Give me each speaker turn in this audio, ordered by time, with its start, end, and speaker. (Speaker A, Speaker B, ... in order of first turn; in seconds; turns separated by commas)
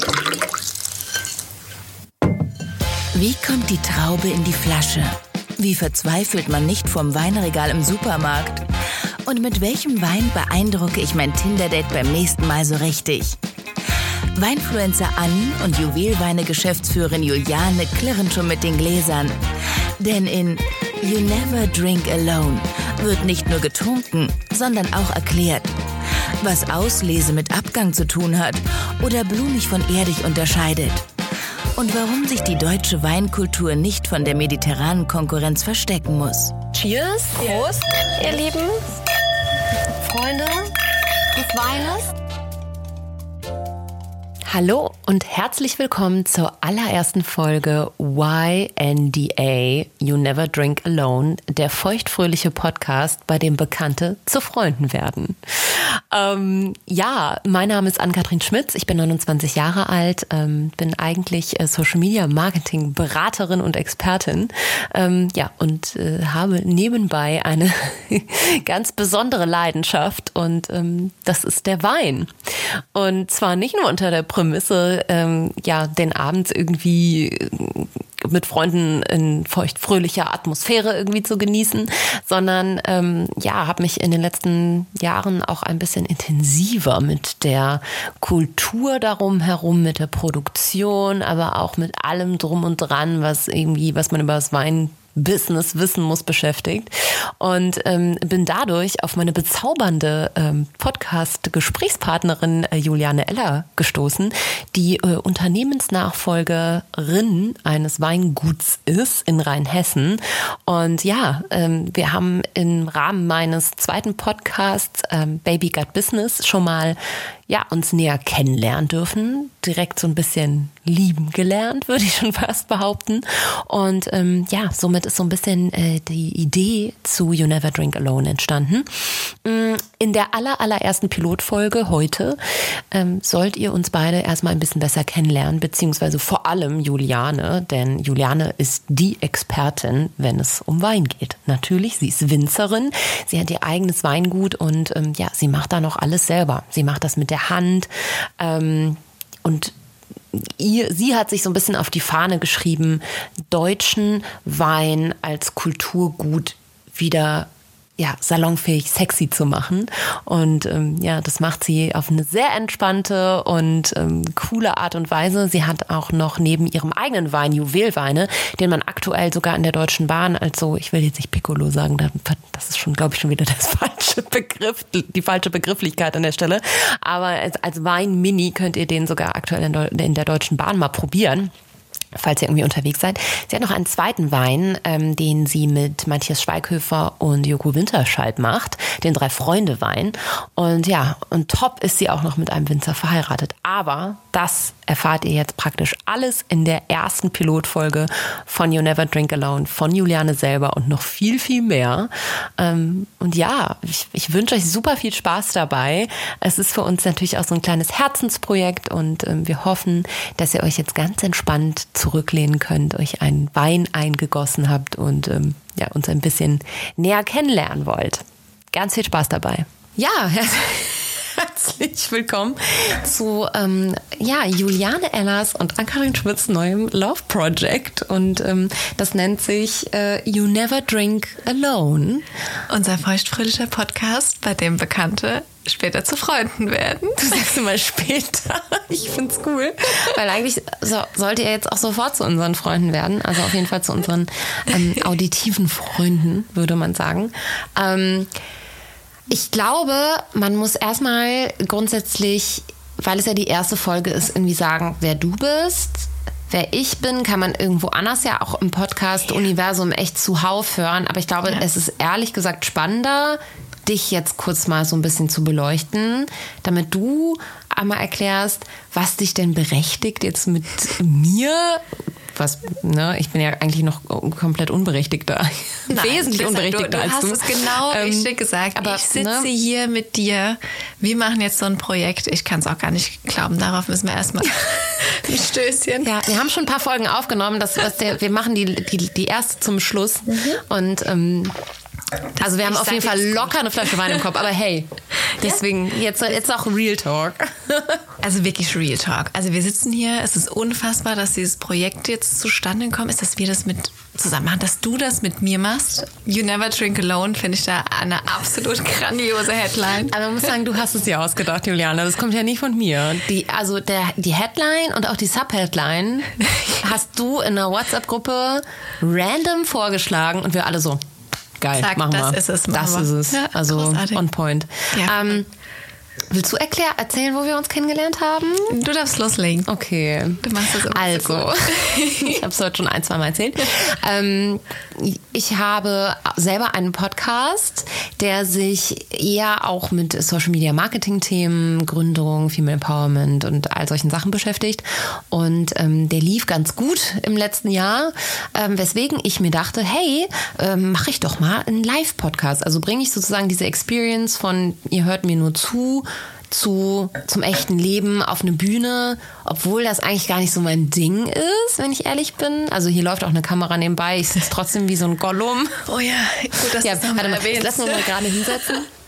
Speaker A: 3.1-8.7, Speaker A: 9.2-13.4, Speaker A: 14.3-19.4, Speaker A: 20.0-25.8, Speaker A: 26.4-31.1, Speaker A: 31.8-36.6, Speaker B: 36.7-38.8, Speaker B: 40.0-40.7, Speaker B: 41.3-42.1, Speaker B: 44.5-132.4, Speaker B: 132.9-149.7, Speaker B: 150.3-181.5, Speaker B: 182.1-232.2, Speaker C: 232.7-237.4, Speaker B: 237.2-248.3, Speaker B: 249.3-279.5, Speaker C: 275.9-286.1, Speaker B: 286.0-291.5, Speaker C: 292.4-294.2, Speaker B: 292.4-298.0, Speaker C: 298.2-310.1, Speaker B: 310.1-321.0, Speaker B: 321.6-325.5, Speaker C: 321.8-324.2, Speaker C: 324.9-325.4, Speaker B: 326.3-328.8, Speaker C: 328.7-329.7, Speaker B: 329.7-365.8, Speaker C: 330.4-332.4, Speaker C: 365.9-368.8, Speaker B: 366.8-368.9